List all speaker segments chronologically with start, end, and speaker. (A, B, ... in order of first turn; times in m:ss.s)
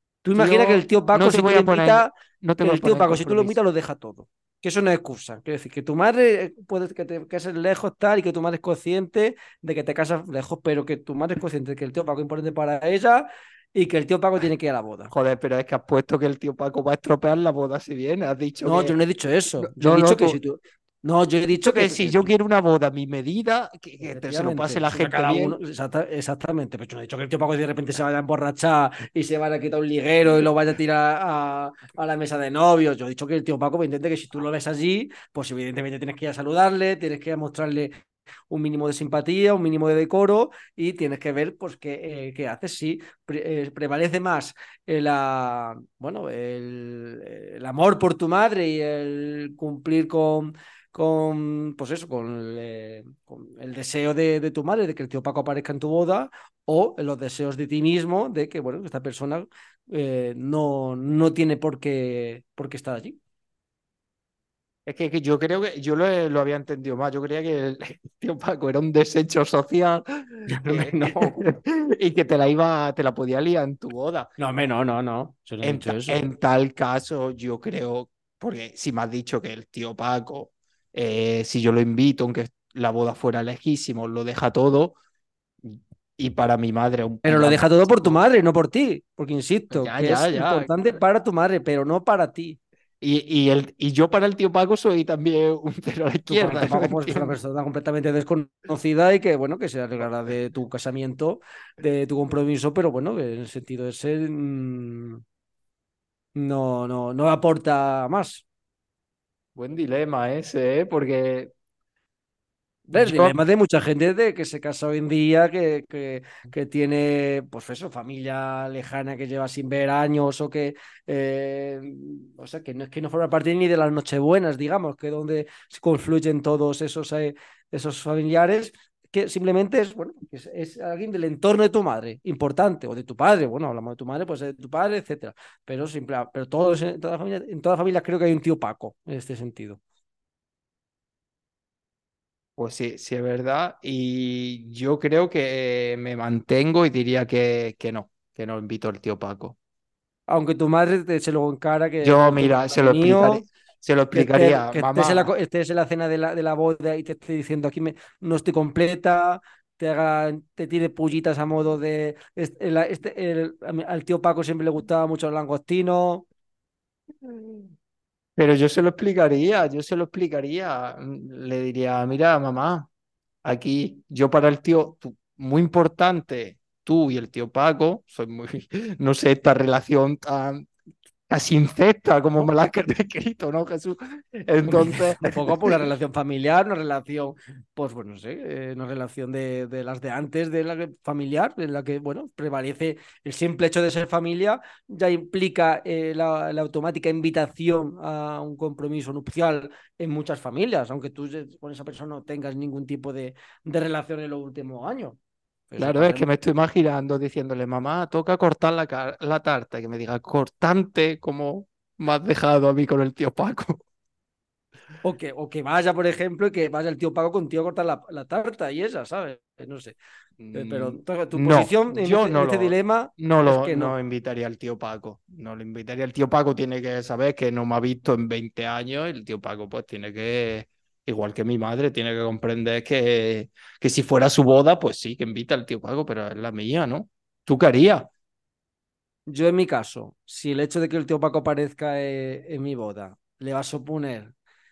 0:00.2-0:15.1 A
0:00.3-0:03.6 B
0:15.1-0:19.0 B
0:18.6-0:22.3 A
0:19.6-0:20.4 B
0:21.6-0:25.6 B
0:24.0-0:38.0 A
0:38.5-1:03.2 A
1:04.9-1:14.3 B
1:10.5-1:11.4 A
1:14.4-1:16.2 A
1:15.6-1:25.0 B
1:25.6-1:28.2 B
1:27.2-1:32.6 A
1:29.7-1:30.7 B
1:33.0-1:37.3 B
1:36.3-1:45.2 A
1:46.4-1:48.4 A
1:49.6-1:51.5 B
1:52.9-2:19.8 A
1:52.9-1:53.4 B
2:22.6-2:29.6 B
2:30.3-2:33.4 A
2:32.0-2:35.3 B
2:34.1-2:46.2 A
2:47.2-2:47.7 B
2:48.4-2:52.9 B
2:53.4-3:00.7 B
3:01.3-3:05.7 B
3:04.7-3:25.2 A
3:25.7-3:26.3 A
3:25.8-3:33.8 B
3:35.0-3:40.0 A
3:40.4-3:58.1 B
3:40.5-3:44.0 A
3:59.3-4:04.3 A